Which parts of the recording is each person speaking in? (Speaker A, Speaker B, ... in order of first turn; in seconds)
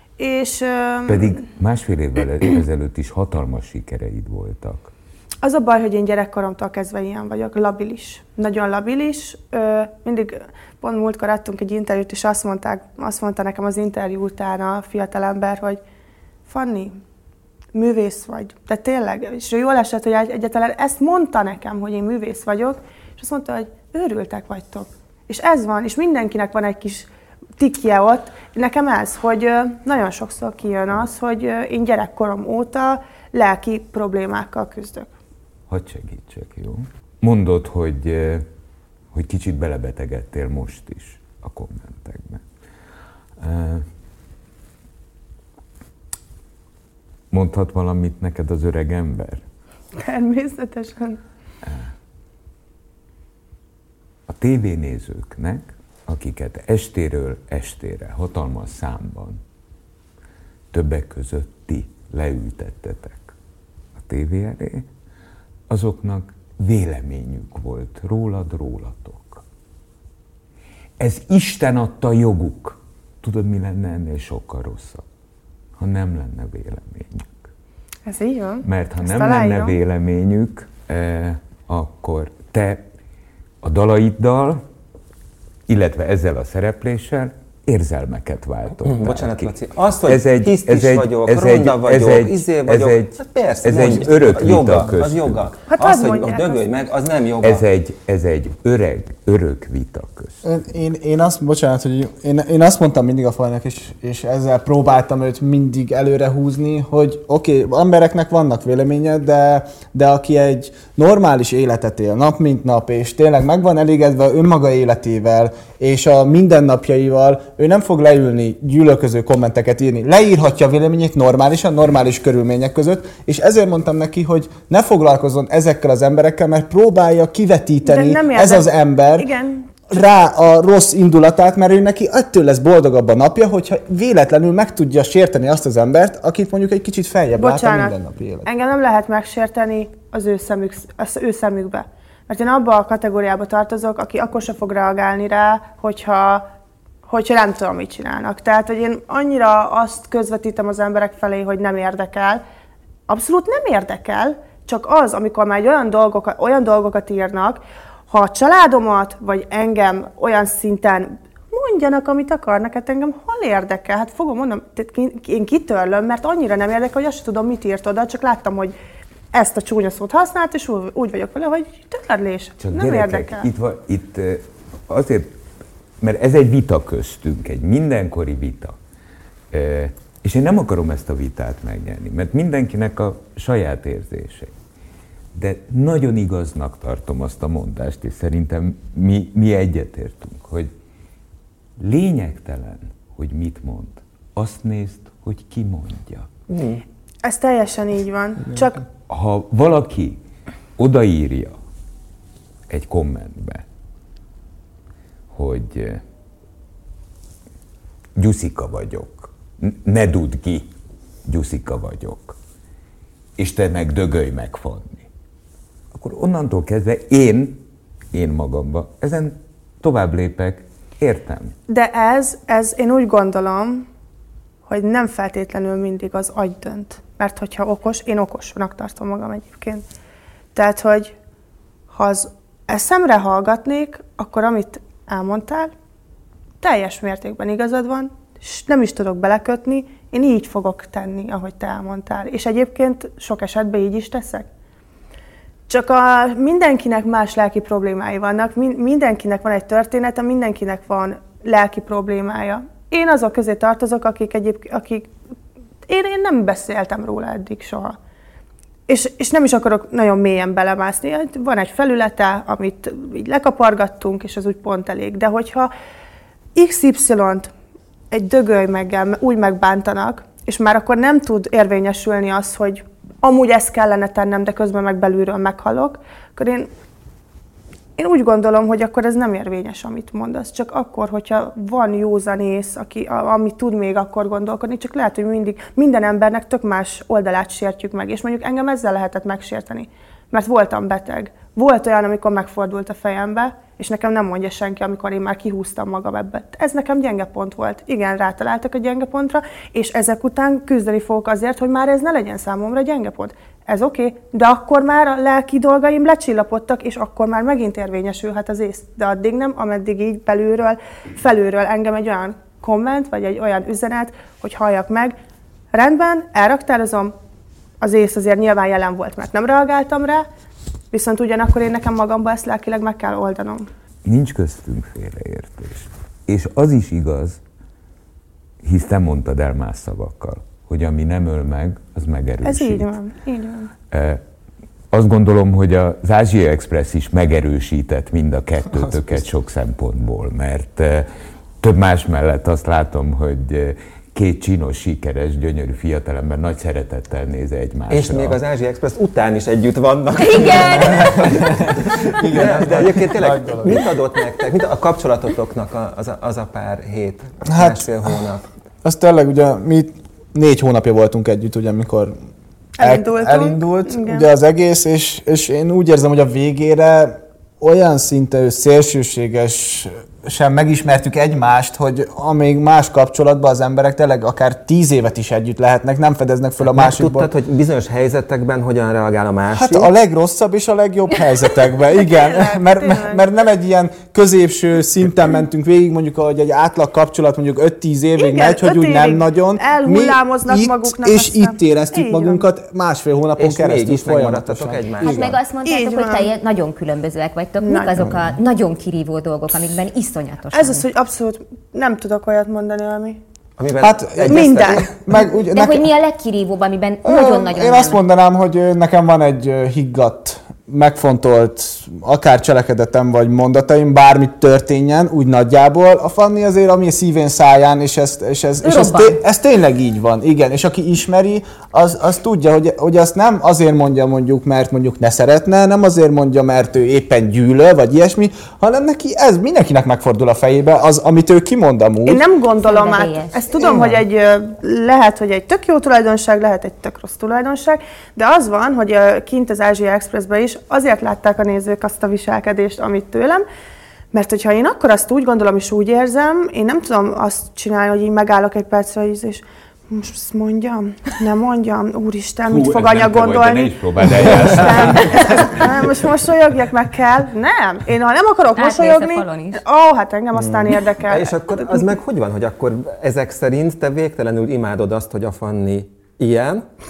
Speaker A: 0.2-1.4, 5.4-15.8, 16.5-17.0, 17.7-35.1, 49.9-51.2, 78.0-79.7, 95.7-96.7, 127.8-129.7, 137.4-146.4, 147.1-152.4, 153.1-168.7, 169.3-173.5, 197.2-198.8, 221.7-223.8, 224.7-229.8, 230.5-231.1, 231.9-235.7, 236.6-244.4, 245.7-255.1, 255.9-257.9, 258.9-265.7, 266.5-267.5, 268.1-276.7, 278.0-315.1, 315.7-317.1, 317.8-320.2, 320.9-323.7, 332.4-333.7, 362.8-364.3, 382.1-383.2, 388.2-392.4, 395.6-396.3, 397.6-398.0, 400.5-403.2, 404.3-404.9, 432.1-443.4, 444.1-461.8
Speaker B: 1.1-4.9, 35.7-38.4, 39.1-42.4, 43.4-43.9, 47.3-49.4, 54.3-59.4, 60.7-63.3, 64.0-64.9, 65.7-69.4, 71.0-75.0, 75.8-77.5, 78.6-82.8, 83.6-84.6, 85.7-89.5, 90.0-95.5, 97.4-100.4, 172.6-175.3, 176.0-178.8, 179.5-184.5, 185.3-190.7, 191.8-196.3, 199.1-200.2, 200.8-201.6, 202.7-203.6, 205.3-206.0, 208.2-210.7, 211.2-212.4, 213.4-215.1, 215.9-221.5, 324.0-327.4, 328.6-332.9, 333.9-334.2, 334.9-341.1, 341.6-348.4, 452.5-455.8
Speaker C: 88.7-97.6, 196.5-196.8, 347.9-358.4, 376.6-379.9, 393.4-395.4, 403.6-404.9, 461.1-466.7
Speaker D: 100.4-129.3, 129.9-138.5, 350.9-353.9, 357.4-357.8, 358.8-362.1, 362.8-377.3, 379.5-395.4, 398.0-398.3, 403.8-405.9, 407.0-432.2, 460.4-460.8
Speaker E: 350.2-351.3, 395.0-400.8, 405.4-408.0, 418.6-419.2, 432.6-433.8, 458.5-459.6